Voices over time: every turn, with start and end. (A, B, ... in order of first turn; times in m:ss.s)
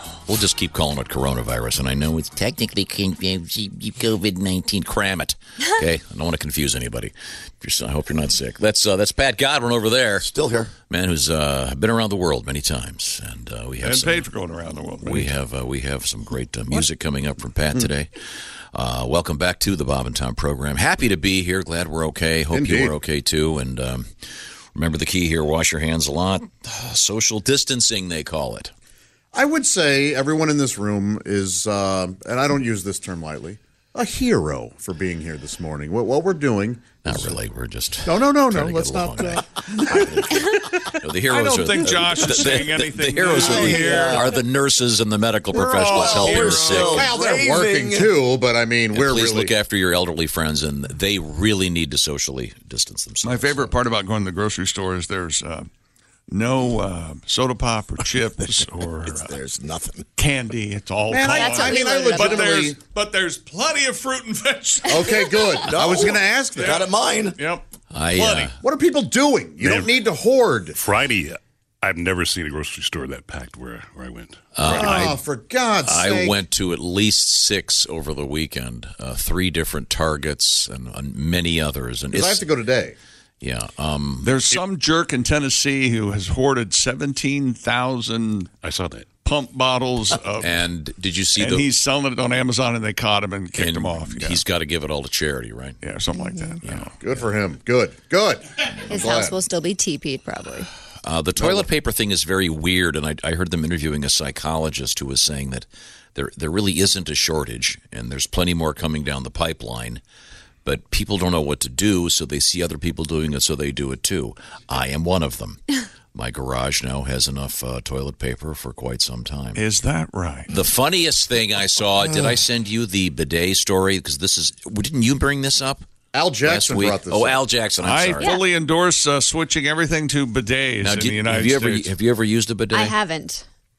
0:00.3-0:10.3 A
0:10.2-0:10.7 B
0:10.9-0:14.3 A
0:13.8-0:15.3 C
0:15.0-0:18.1 A
0:18.7-0:24.1 A
0:22.5-0:23.0 D
0:24.8-0:28.7 A
0:29.3-0:37.4 D
0:37.0-0:47.1 A
0:38.0-0:40.7 D
0:41.3-0:44.3 C
0:43.3-0:44.3 B
0:45.5-0:48.2 B
0:45.6-0:47.1 C
0:46.9-0:49.5 D
0:48.9-0:53.7 A
0:53.2-0:55.7 C
0:56.3-0:59.3 C
0:59.1-1:00.1 B
1:00.2-1:05.7 C
1:01.1-1:02.8 D
1:01.3-1:02.4 E
1:04.9-1:06.8 D
1:05.6-1:07.4 B
1:06.6-1:08.5 C
1:07.9-1:08.6 A
1:08.6-1:10.8 D
1:09.6-1:10.0 F
1:10.7-1:14.9 F
1:14.6-1:15.2 A
1:14.7-1:16.4 D
1:15.8-1:22.5 A
1:22.1-1:23.0 D
1:23.4-1:24.4 A
1:24.2-1:28.5 C
1:28.6-1:29.1 F
1:29.2-1:30.6 C
1:30.4-1:31.7 A
1:31.4-1:34.4 C
1:33.5-1:35.8 A
1:35.8-1:36.9 C
1:36.2-1:36.5 E
1:36.6-1:36.9 A
1:37.0-1:39.4 D
1:38.9-1:40.7 E
1:41.0-1:50.0 A
1:41.4-1:41.7 D
1:50.6-1:59.6 A
1:59.5-2:00.5 C
2:00.5-2:05.9 A
2:06.1-2:07.4 D
2:06.4-2:08.3 A
2:07.8-2:11.9 C
2:08.2-2:08.5 E
2:10.8-2:13.0 A
2:12.7-2:13.4 E